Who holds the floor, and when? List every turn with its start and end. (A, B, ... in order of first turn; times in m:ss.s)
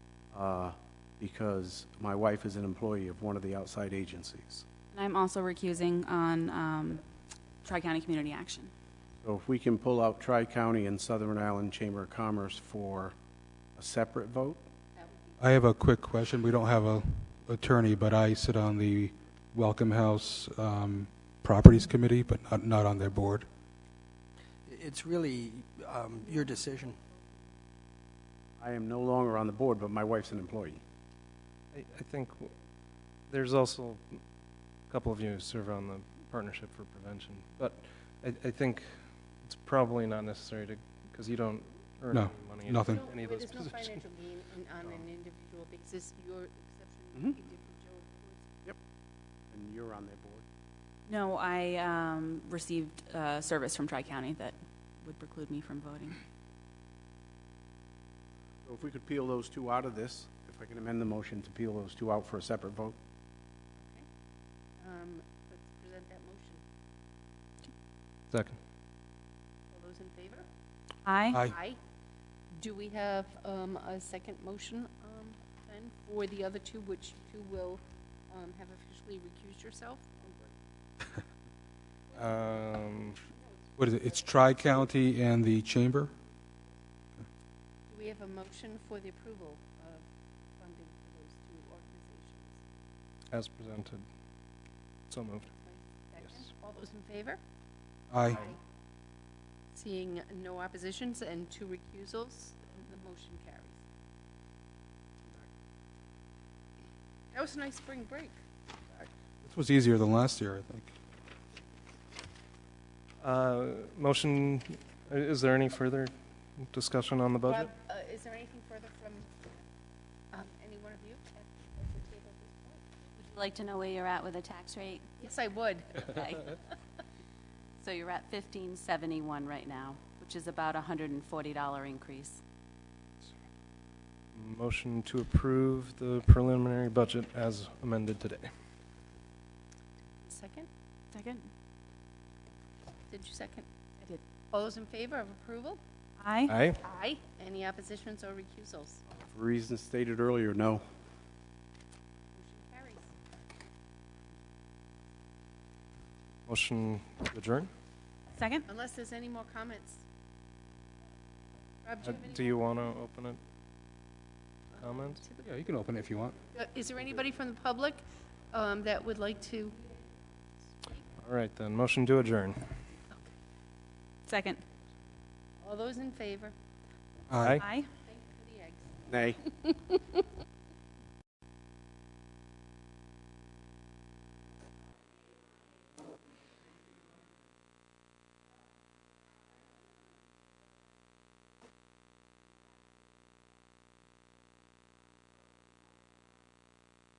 0:00.3-0:04.6 A
0:04.9-0:07.0 B
0:07.6-0:08.7 B
0:09.2-0:13.2 A
0:13.8-0:14.6 A
0:15.0-0:15.4 C
0:15.4-0:23.5 D
0:24.7-0:27.0 E
0:28.6-0:30.8 A
0:31.7-0:32.5 F
0:33.3-0:34.2 F
0:34.9-0:44.0 F
0:42.1-0:43.1 D
0:42.9-0:48.5 C
0:49.5-0:50.4 A
0:51.1-0:56.2 B
0:58.6-1:03.0 A
1:03.8-1:04.1 C
1:04.8-1:06.6 C
1:08.3-1:08.6 F
1:09.7-1:10.5 C
1:11.0-1:11.4 B
1:11.4-1:11.8 C
1:12.5-1:20.4 C
1:22.1-1:23.2 F
1:23.8-1:26.1 D
1:27.9-1:30.1 C
1:30.6-1:32.6 C
1:33.3-1:34.1 F
1:35.1-1:35.5 F
1:35.6-1:37.4 C
1:38.1-1:38.4 D
1:38.3-1:38.6 C
1:39.7-1:43.8 C
1:47.3-1:48.4 C
1:49.4-1:50.9 D
1:53.2-1:57.7 F
1:57.4-1:59.3 C
2:00.3-2:02.9 C
2:03.2-2:05.0 G
2:05.2-2:06.6 C
2:06.1-2:06.4 G
2:07.8-2:12.4 G
2:14.3-2:18.5 F
2:20.2-2:20.7 C
2:21.1-2:21.5 B
2:23.1-2:23.7 C
2:24.4-2:25.8 C
2:26.2-2:26.6 B
2:26.5-2:26.8 F
2:26.7-2:29.0 C
2:29.1-2:30.8 A
2:32.3-2:33.2 C
2:36.5-2:37.7 F
2:38.4-2:38.7 B
2:38.7-2:40.0 C
2:41.8-2:42.7 C
2:42.0-2:43.4 F
2:44.7-2:45.4 C
2:44.8-2:45.2 F
2:45.4-2:46.4 D
2:46.5-2:50.0 C
2:51.2-2:52.7 F
2:54.3-2:54.6 B
2:55.6-2:56.6 C
2:57.3-2:57.6 D
2:57.3-2:57.7 F
2:57.6-2:57.9 B
2:58.0-3:00.2 C
2:59.1-2:59.4 A